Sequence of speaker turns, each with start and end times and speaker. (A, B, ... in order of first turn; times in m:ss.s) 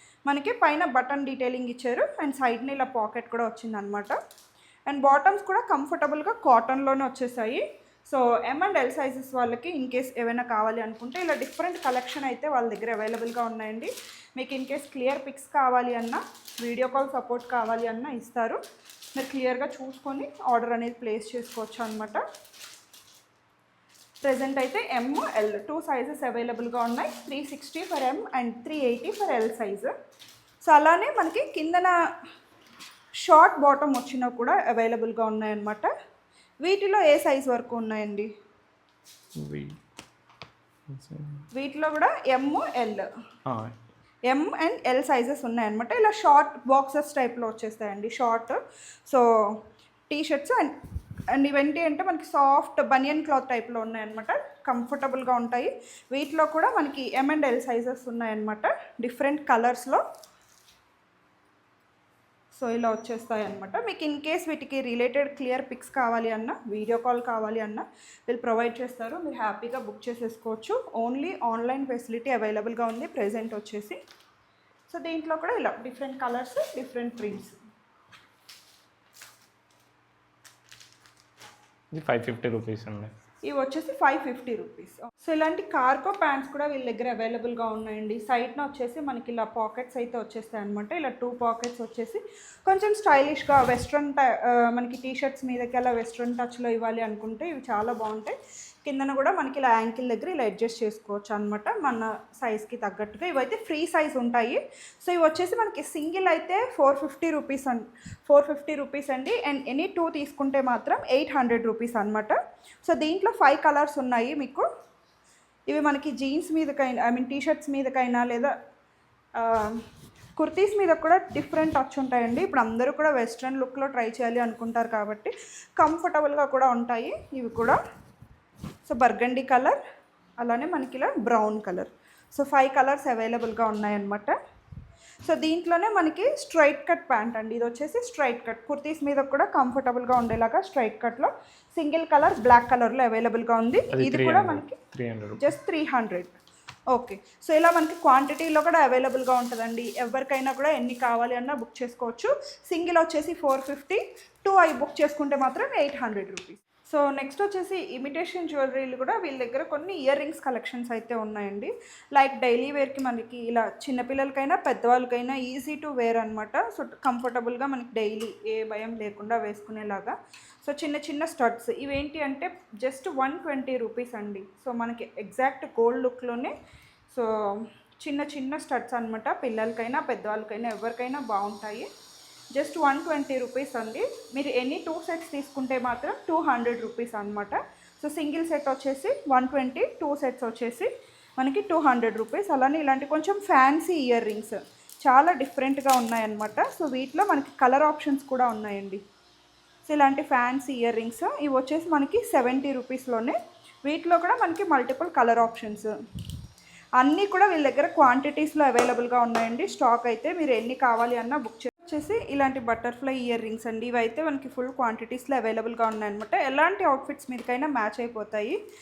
0:00.3-0:04.2 A
0:04.9-0:18.6 A
0:19.2-0:22.2 A
0:24.2-0:29.9 A
0:30.6-0:31.9 A
0:33.2-0:35.9 A
0:36.6-0:38.3 A
0:39.4-0:39.7 B
0:40.9-0:41.4 B
0:41.5-0:43.0 A
0:43.5-0:43.8 B
0:44.3-0:49.5 A
0:50.1-0:50.7 A
0:51.3-1:00.0 A
1:02.6-1:14.0 A
1:14.9-1:17.6 A
1:21.9-1:23.1 B
1:23.5-1:54.6 A
1:55.7-1:58.5 A
1:59.4-1:59.8 A
2:00.4-2:07.8 A
2:08.9-2:09.8 A
2:10.4-2:14.4 A
2:15.2-2:24.8 A
2:23.9-2:25.5 B
2:25.4-2:26.3 A
2:26.9-2:56.5 A
2:57.1-3:01.9 A
3:02.5-3:19.0 A
3:19.8-3:25.9 A
3:27.0-3:38.6 A